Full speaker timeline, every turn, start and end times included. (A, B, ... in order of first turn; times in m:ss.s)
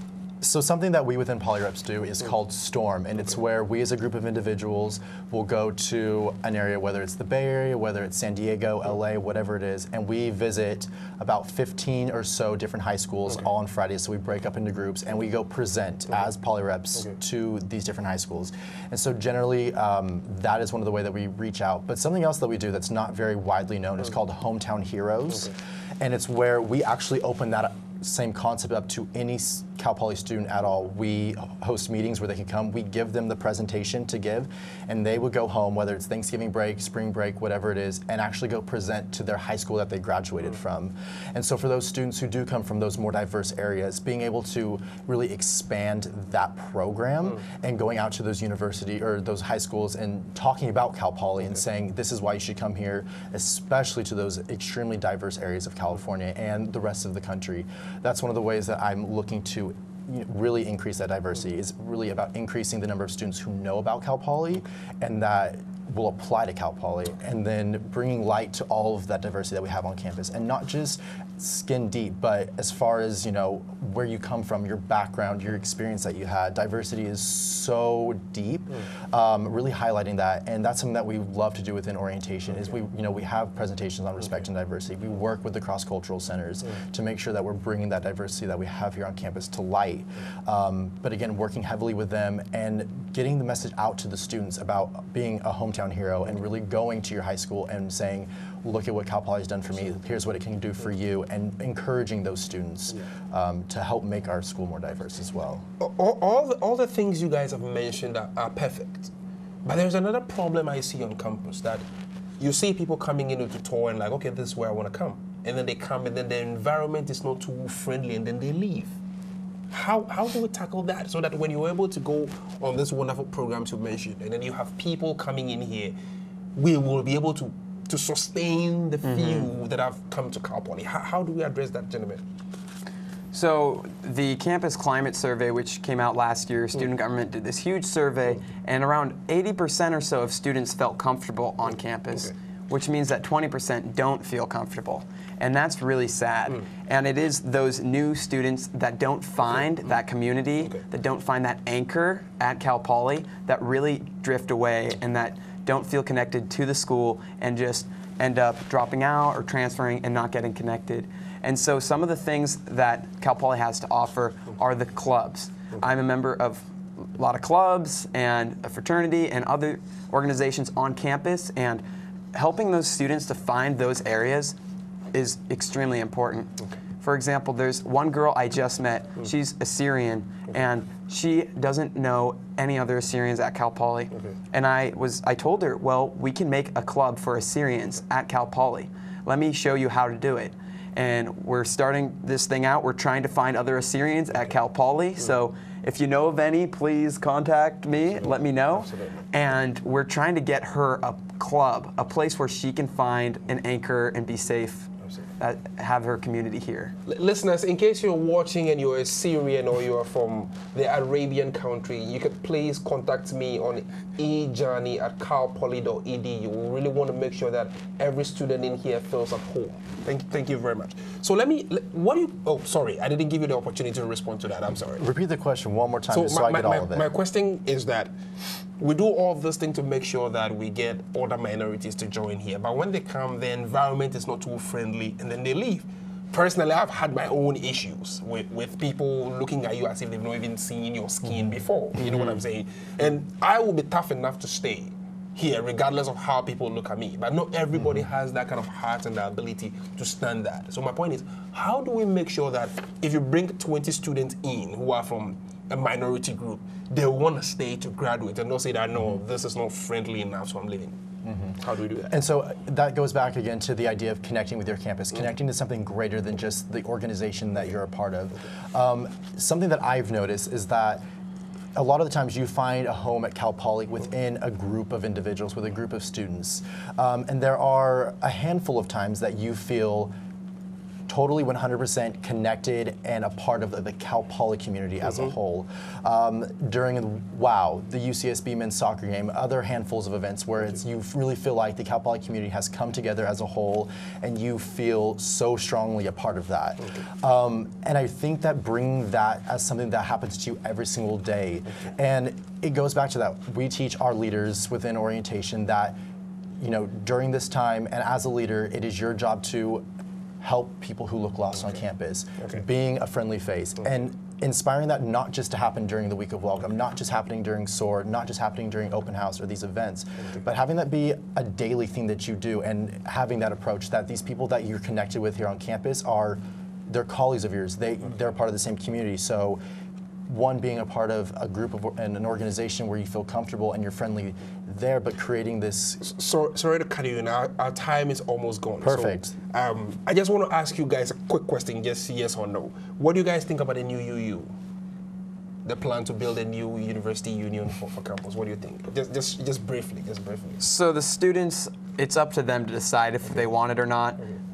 0:00.4-1:45.6 A
1:45.8-1:49.1 B
1:49.6-1:51.8 B
1:52.4-1:59.0 B
1:59.7-2:05.9 B
2:06.6-2:12.2 B
2:09.0-2:09.5 C
2:13.3-2:46.6 C
2:47.2-2:51.8 C
2:52.3-2:54.5 C
2:55.1-3:26.9 C
3:18.2-3:19.2 B
3:27.0-3:45.0 B
3:45.0-3:47.1 A
3:46.1-3:48.1 B
3:48.8-4:21.0 B
4:01.4-4:02.4 A
4:21.2-4:21.6 A
4:21.6-4:22.2 B
4:22.1-4:31.0 A
4:31.7-4:40.1 A
4:41.1-5:06.0 A
5:06.6-5:09.8 A
5:10.4-5:29.6 A
5:30.3-5:36.0 A
5:36.0-5:44.5 B
5:38.8-5:39.3 A
5:45.6-5:50.6 B
5:50.6-5:54.2 C